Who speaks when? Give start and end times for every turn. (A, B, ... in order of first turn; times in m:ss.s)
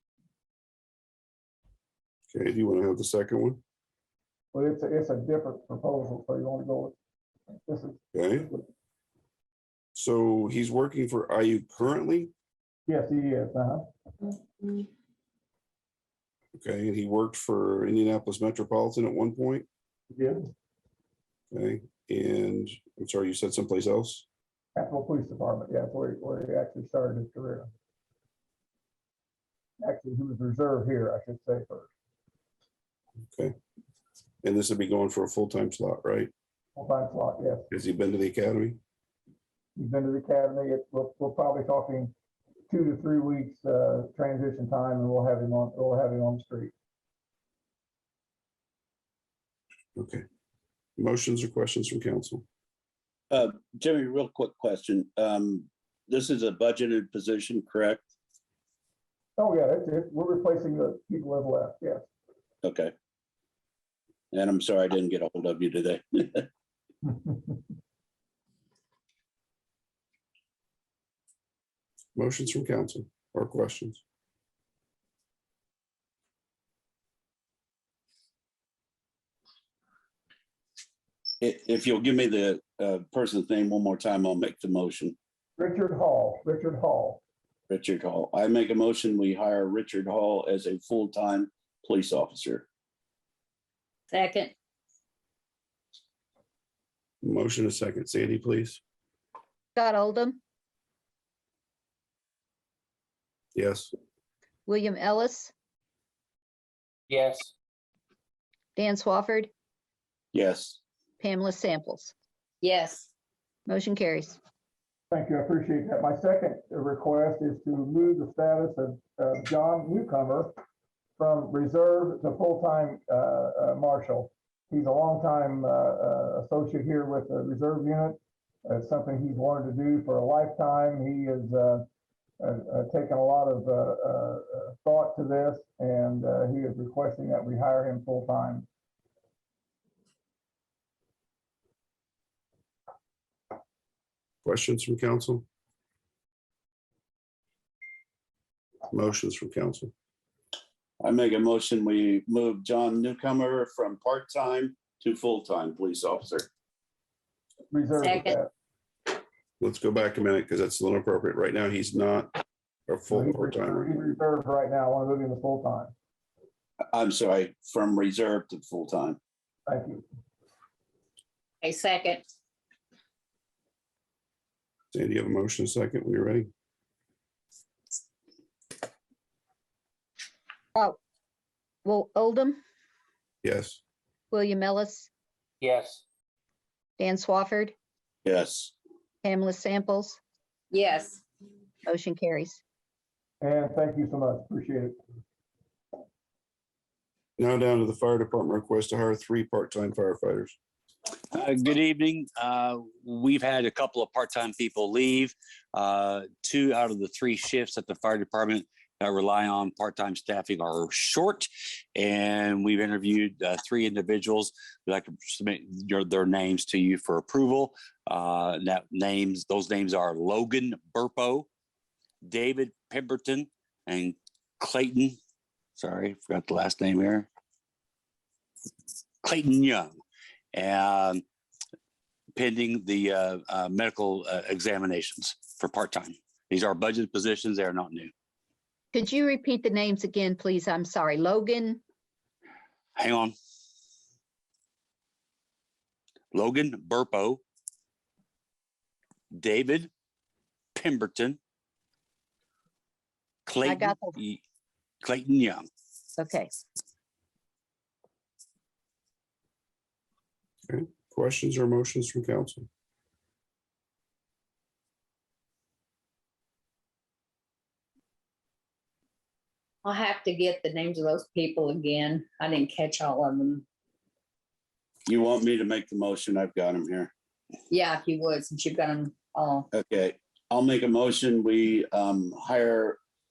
0:02.3-0:03.6 A
0:04.5-0:07.0 B
0:07.6-0:08.6 B
0:08.1-0:08.5 A
0:10.0-0:12.3 A
0:12.9-0:13.9 B
0:16.6-0:19.7 A
0:20.1-0:20.4 B
0:21.5-0:24.2 A
0:24.8-0:27.7 B
0:29.8-0:31.9 B
0:34.4-0:36.3 A
0:36.8-0:37.7 B
0:37.7-0:38.8 A
0:39.8-0:42.1 B
0:42.7-0:46.7 B
0:50.0-0:50.2 A
0:51.0-0:52.4 A
0:53.3-0:58.1 C
0:59.4-1:02.1 B
1:02.6-1:02.9 C
1:04.3-1:06.5 C
1:12.2-1:14.0 A
1:21.4-1:25.2 C
1:25.6-1:27.2 B
1:27.7-1:32.7 C
1:34.1-1:34.5 D
1:37.2-1:38.8 A
1:39.8-1:40.4 E
1:43.6-1:43.9 A
1:44.7-1:45.5 E
1:47.1-1:47.5 F
1:48.8-1:49.5 E
1:50.3-1:50.8 C
1:51.2-1:52.1 E
1:52.6-1:53.1 D
1:53.7-1:54.4 E
1:55.1-2:00.5 B
2:01.2-2:11.8 B
2:12.4-2:18.7 B
2:24.4-2:25.4 A
2:28.9-2:29.9 A
2:31.0-2:36.5 C
2:37.7-2:38.5 B
2:38.0-2:38.4 D
2:39.6-2:42.4 A
2:42.9-2:44.1 A
2:43.1-2:45.9 B
2:46.9-2:49.2 C
2:49.7-2:50.0 B
2:51.6-2:52.2 D
2:54.9-2:56.5 A
3:01.8-3:02.6 E
3:03.4-3:03.8 A
3:04.3-3:05.1 E
3:05.6-3:06.0 F
3:07.0-3:07.7 E
3:08.2-3:08.7 C
3:09.2-3:10.2 E
3:10.7-3:11.2 D
3:11.9-3:12.6 E
3:13.4-3:15.0 B
3:17.4-3:20.6 A
3:21.3-3:41.5 F
3:42.2-3:45.2 F
3:45.8-3:47.3 F
3:49.2-3:49.9 F
3:50.5-3:51.2 F
3:52.4-3:58.1 F
3:58.9-4:01.8 E
4:03.0-4:03.3 F
4:06.3-4:07.4 F
4:09.3-4:09.9 F
4:10.8-4:11.4 F
4:13.5-4:14.4 F
4:13.6-4:14.2 E
4:15.0-4:15.6 F
4:16.2-4:16.5 E
4:20.7-4:22.7 A
4:29.8-4:33.6 D
4:35.1-4:37.1 C
4:37.7-4:39.7 D
4:39.7-4:43.0 C